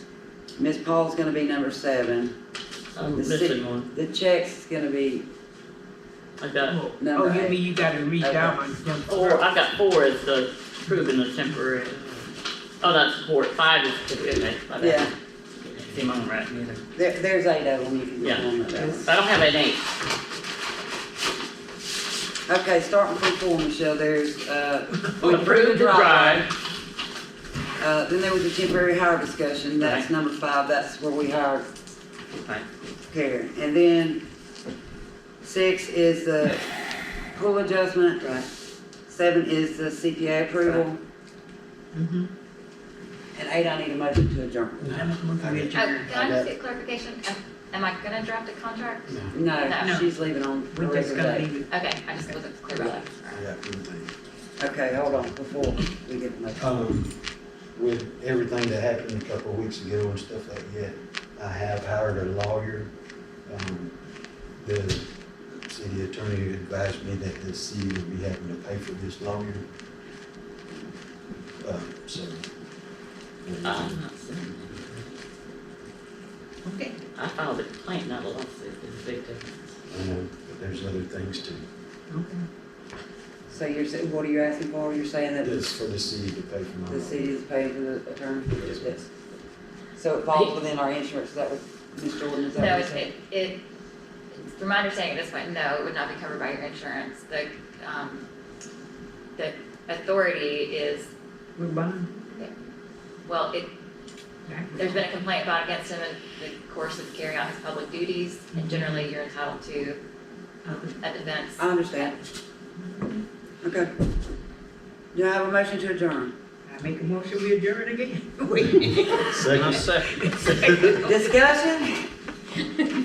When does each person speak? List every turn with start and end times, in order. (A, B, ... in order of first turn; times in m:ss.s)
0:00.6-0:02.3 A
0:03.0-0:03.9 B
0:03.2-0:05.3 A
0:06.4-0:06.8 B
0:06.7-0:09.4 C
0:07.0-0:07.6 A
0:08.2-0:08.7 A
0:09.1-0:12.0 B
0:12.8-0:15.1 B
0:14.8-0:15.1 A
0:15.7-0:16.8 B
0:17.0-0:19.1 A
0:18.2-0:19.9 B
0:22.5-0:26.5 A
0:25.2-0:26.5 B
0:27.8-0:31.7 A
0:33.1-0:34.2 A
0:35.4-0:36.6 A
0:37.3-0:38.4 A
0:39.1-0:41.0 A
0:41.9-0:42.3 C
0:43.4-0:45.0 A
0:44.9-0:46.5 D
0:44.9-0:46.0 C
0:45.7-0:50.1 E
0:49.1-0:49.3 D
0:49.3-0:51.5 A
0:49.8-0:50.1 C
0:50.7-0:51.7 C
0:51.7-0:53.5 E
0:53.3-0:54.1 D
0:54.6-0:56.8 A
0:54.9-0:55.4 D
0:56.6-0:57.2 D
0:57.7-1:02.9 D
1:03.5-1:04.0 D
1:04.6-1:09.6 D
1:11.6-1:12.5 D
1:13.4-1:14.0 D
1:13.6-1:15.1 B
1:16.6-1:17.0 C
1:17.2-1:19.8 B
1:19.9-1:21.6 D
1:22.1-1:22.5 C
1:23.5-1:25.7 A
1:25.4-1:27.3 D
1:26.9-1:29.1 A
1:28.6-1:28.9 D
1:30.0-1:33.1 A
1:32.5-1:33.6 E
1:34.3-1:38.3 E
1:39.4-1:41.1 E
1:41.6-1:42.1 C
1:43.2-1:43.7 E
1:44.5-1:45.1 C
1:44.8-1:50.0 E
1:48.5-1:49.1 C
1:50.7-1:50.9 C
1:50.7-1:52.1 E
1:51.6-1:52.2 A
1:52.8-1:53.2 C
1:53.6-1:53.9 A
1:55.1-1:56.3 A
1:56.7-2:01.0 C
1:59.2-2:01.0 D
2:00.8-2:02.1 A